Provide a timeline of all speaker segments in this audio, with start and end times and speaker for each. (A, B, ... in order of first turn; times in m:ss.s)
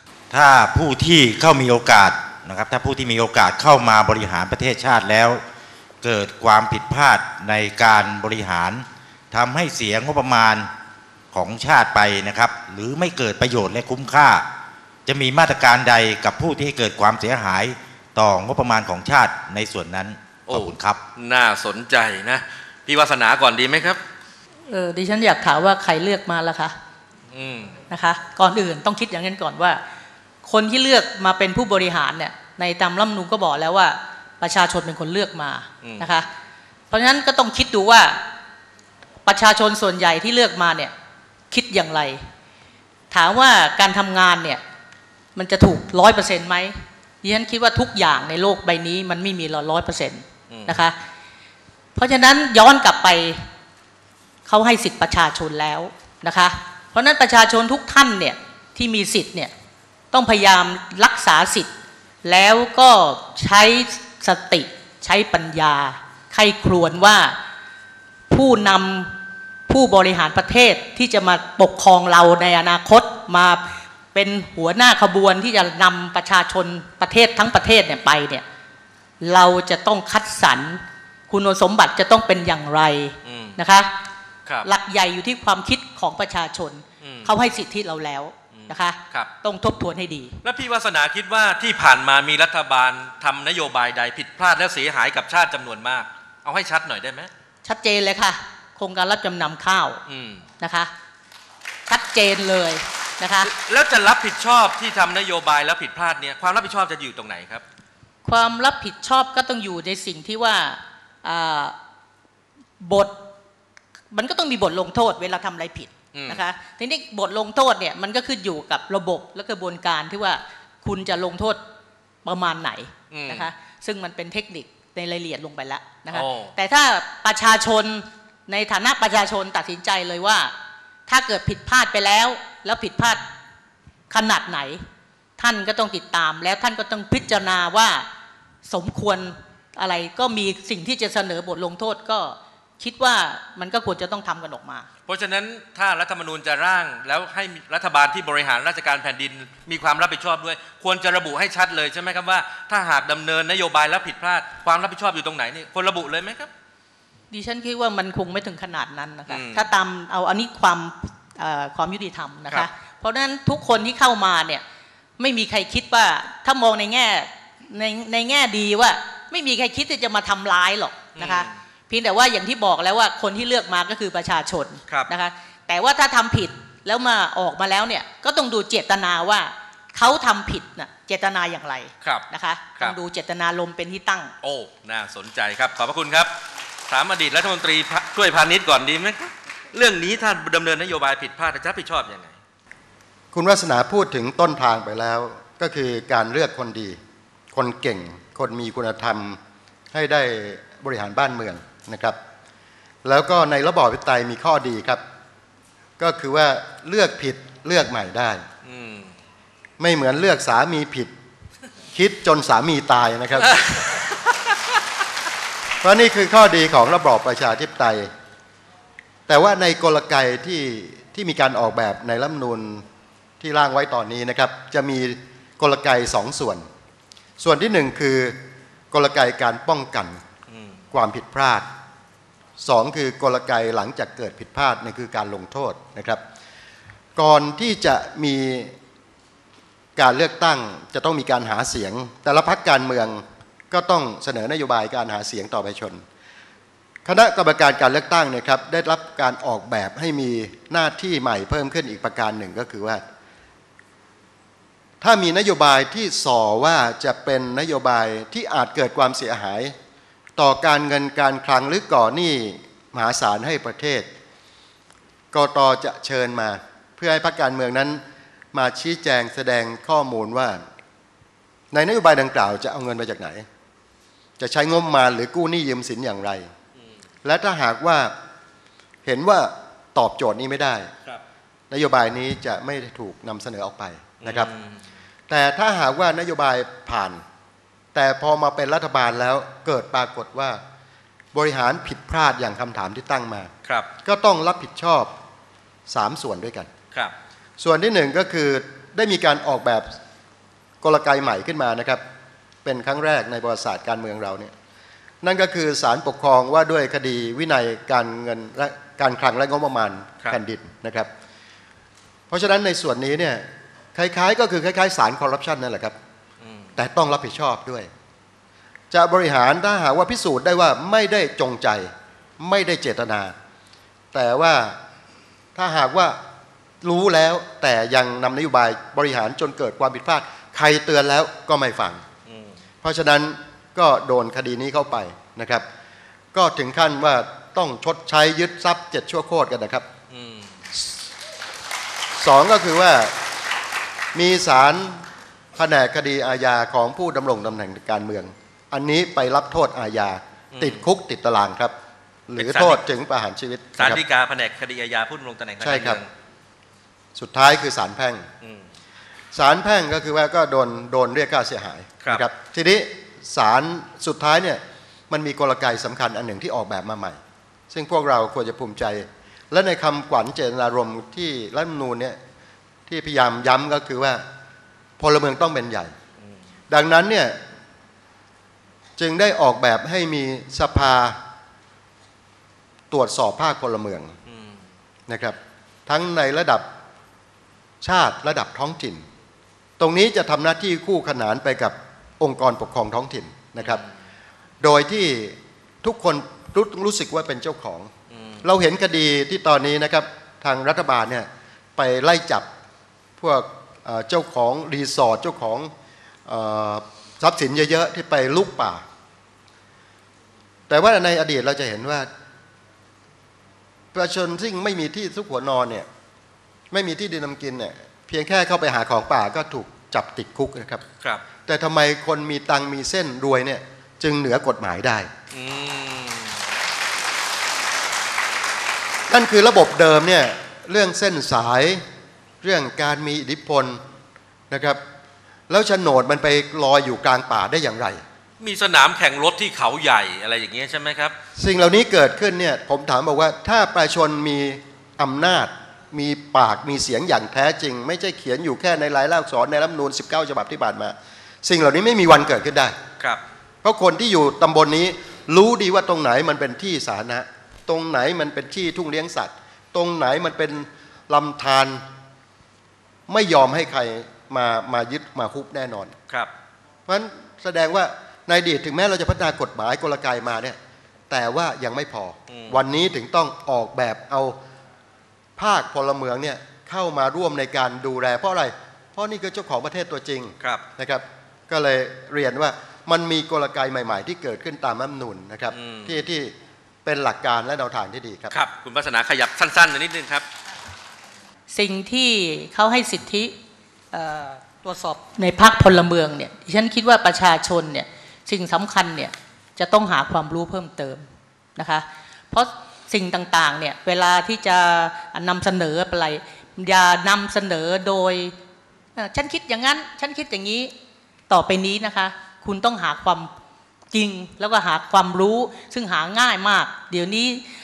0:00.3-0:05.4 A
0:06.0-0:10.7 A
0:11.3-0:14.4 A
0:15.0-0:21.0 A
0:20.5-0:24.0 B
0:24.7-0:26.7 C
0:27.3-0:27.7 B
0:27.9-0:29.8 C
0:30.4-0:36.3 C
0:36.9-0:38.2 C
0:39.2-0:40.9 C
0:41.5-0:42.2 C
0:43.1-0:44.6 C
0:45.3-0:50.9 C
0:50.5-0:50.8 B
0:52.0-0:53.5 C
0:54.4-0:59.5 C
1:00.1-1:01.7 C
1:02.2-1:07.4 C
1:08.3-1:09.1 C
1:09.7-1:13.6 C
1:14.1-1:18.4 C
1:19.2-1:23.9 C
1:23.2-1:23.5 B
1:24.6-1:30.4 C
1:27.0-1:27.3 B
1:28.5-1:29.3 B
1:30.4-1:37.3 B
1:37.6-1:40.0 C
1:40.1-1:40.4 B
1:40.6-1:40.9 C
1:41.9-1:43.5 C
1:43.4-1:47.6 B
1:48.2-1:51.7 C
1:52.8-1:53.2 C
1:54.1-2:01.6 C
1:56.1-1:56.4 B
2:02.2-2:10.5 C
2:03.1-2:03.5 B
2:06.1-2:06.5 B
2:11.1-2:13.2 C
2:14.1-2:14.8 C
2:15.4-2:18.0 C
2:18.6-2:24.9 C
2:25.1-2:36.5 B
2:37.3-2:44.6 C
2:39.3-2:39.6 B
2:45.2-3:04.3 C
2:51.2-2:51.5 B
3:04.4-3:06.3 B
3:06.9-3:12.4 B
3:13.3-3:17.0 D
3:17.5-3:19.4 D
3:19.9-3:22.2 D
3:23.0-3:25.0 D
3:26.0-3:28.4 D
3:28.6-3:29.1 B
3:29.8-3:31.1 D
3:31.9-3:33.6 D
3:35.8-3:38.1 D
3:39.3-3:42.8 D
3:43.4-3:46.6 D
3:47.4-3:48.4 D
3:48.9-3:50.2 D
3:50.9-3:51.6 D
3:52.6-3:56.2 D
3:57.2-3:58.7 D
4:00.0-4:06.0 D
4:07.0-4:13.0 D
4:15.0-4:19.7 D
4:20.4-4:24.1 D
4:25.3-4:28.0 D
4:28.5-4:30.6 D
4:31.7-4:33.4 D
4:34.4-4:36.5 D
4:37.2-4:38.1 D
4:39.0-4:40.9 D
4:41.7-4:44.5 D
4:44.2-4:44.7 B
4:45.3-4:47.2 D
4:47.9-4:50.6 D
4:51.3-4:53.5 D
4:54.0-4:55.1 D
4:55.9-4:56.7 D
4:57.6-4:59.9 D
5:00.8-5:02.0 D
5:02.6-5:04.5 D
5:05.2-5:11.1 D
5:12.3-5:16.0 D
5:16.8-5:17.9 D
5:18.9-5:23.3 D
5:24.1-5:24.8 D
5:25.5-5:26.2 D
5:26.8-5:32.0 D
5:32.8-5:35.6 D
5:36.3-5:39.9 D
5:40.1-5:40.5 B
5:42.2-5:43.1 D
5:44.1-5:45.0 D
5:45.6-5:51.7 D
5:50.6-5:50.8 B
5:52.3-5:54.0 D
5:52.4-5:52.8 B
5:53.8-5:56.0 B
5:55.6-5:56.0 D
5:57.2-5:58.3 D
5:59.3-6:07.2 D
6:07.7-6:12.2 D
6:12.9-6:14.2 D
6:15.0-6:15.9 D
6:16.7-6:17.4 D
6:19.0-6:21.2 D
6:22.9-6:24.1 D
6:25.1-6:26.6 D
6:27.8-6:29.0 D
6:29.8-6:33.8 D
6:33.6-6:33.9 B
6:34.6-6:37.9 D
6:38.1-6:38.4 B
6:38.4-6:42.5 D
6:43.2-6:45.7 D
6:46.2-6:48.8 D
6:50.7-6:52.1 D
6:53.9-6:55.9 D
6:56.7-7:00.8 D
7:01.4-7:05.1 D
7:05.3-7:06.3 B
7:09.1-7:11.8 D
7:12.4-7:13.8 D
7:14.5-7:14.8 D
7:15.5-7:18.0 D
7:18.4-7:21.1 B
7:21.4-7:32.7 D
7:33.6-7:41.8 D
7:43.1-7:45.9 D
7:46.9-7:50.6 D
7:51.1-7:54.4 D
7:52.3-7:52.6 B
7:55.4-8:06.3 D
8:05.5-8:05.9 B
8:06.8-8:08.3 D
8:08.3-8:10.2 B
8:11.5-8:13.3 C
8:13.9-8:21.0 C
8:21.6-8:28.3 C
8:29.0-8:30.7 C
8:31.3-8:33.3 C
8:33.9-8:37.4 C